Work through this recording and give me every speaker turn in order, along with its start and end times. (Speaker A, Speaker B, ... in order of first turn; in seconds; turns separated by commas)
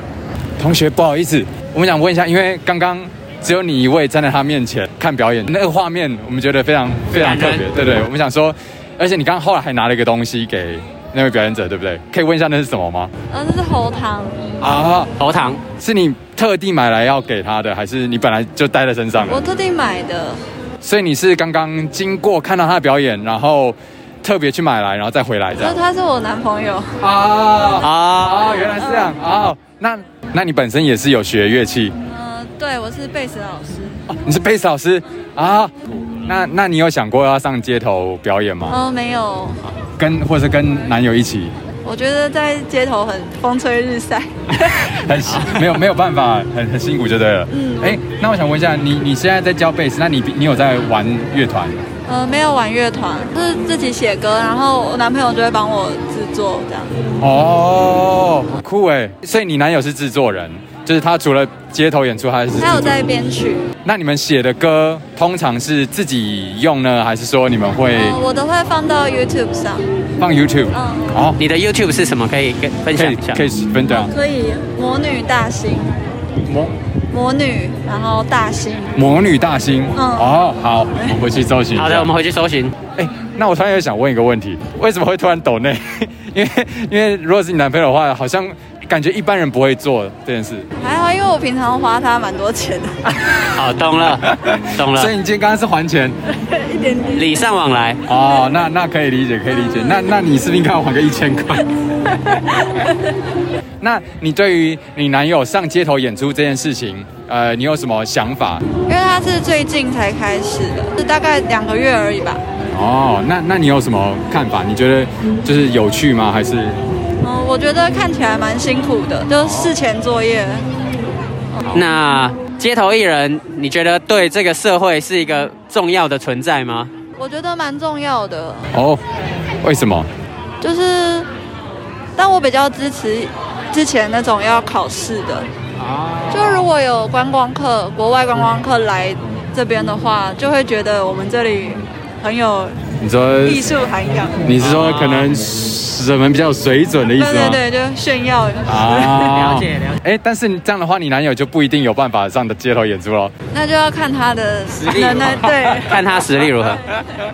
Speaker A: 0.6-13.1, Speaker B: 7.1-7.7, Speaker C: 13.3-14.4, Speaker A: 14.6-15.1, Speaker B: 15.2-15.6, Speaker A: 15.8-19.4, Speaker C: 19.2-20.4, Speaker A: 20.8-25.8, Speaker C: 25.6-26.9, Speaker A: 27.0-31.9, Speaker B: 27.8-28.5, Speaker C: 28.8-29.1, Speaker C: 32.0-34.0, Speaker A: 34.1-35.7, Speaker A: 36.2-38.8, Speaker C: 38.7-39.6, Speaker A: 40.0-41.5, Speaker C: 41.9-44.9, Speaker A: 44.8-51.8, Speaker B: 45.3-45.6, Speaker C: 47.5-48.0, Speaker C: 52.1-57.0, Speaker A: 57.2-63.0, Speaker C: 62.5-63.6, Speaker A: 63.9-68.2, Speaker C: 67.9-69.9, Speaker A: 70.2-71.4, Speaker C: 70.7-71.3, Speaker B: 71.4-73.4, Speaker A: 72.9-74.1, Speaker C: 73.9-75.9, Speaker C: 77.1-78.9, Speaker A: 79.0-82.1, Speaker C: 80.0-80.3, Speaker B: 81.8-82.8, Speaker A: 83.0-90.7, Speaker C: 90.8-93.0, Speaker B: 93.5-95.1, Speaker A: 94.2-96.2, Speaker C: 96.5-97.4, Speaker B: 97.1-98.0, Speaker A: 98.1-101.7, Speaker A: 103.8-108.6, Speaker C: 108.9-112.4, Speaker A: 112.7-116.8, Speaker C: 117.2-120.6, Speaker B: 121.7-126.9, Speaker C: 127.2-128.7, Speaker A: 128.7-129.0, Speaker A: 129.6-130.1, Speaker C: 130.6-131.3, Speaker C: 132.2-135.5, Speaker B: 135.8-136.6, Speaker C: 136.3-142.8, Speaker A: 143.0-143.6, Speaker C: 143.4-144.4, Speaker A: 144.4-147.6, Speaker B: 144.6-145.3, Speaker C: 147.2-149.3, Speaker A: 148.7-153.3, Speaker B: 149.2-150.0, Speaker C: 153.5-156.0, Speaker B: 154.8-156.8, Speaker A: 155.5-155.8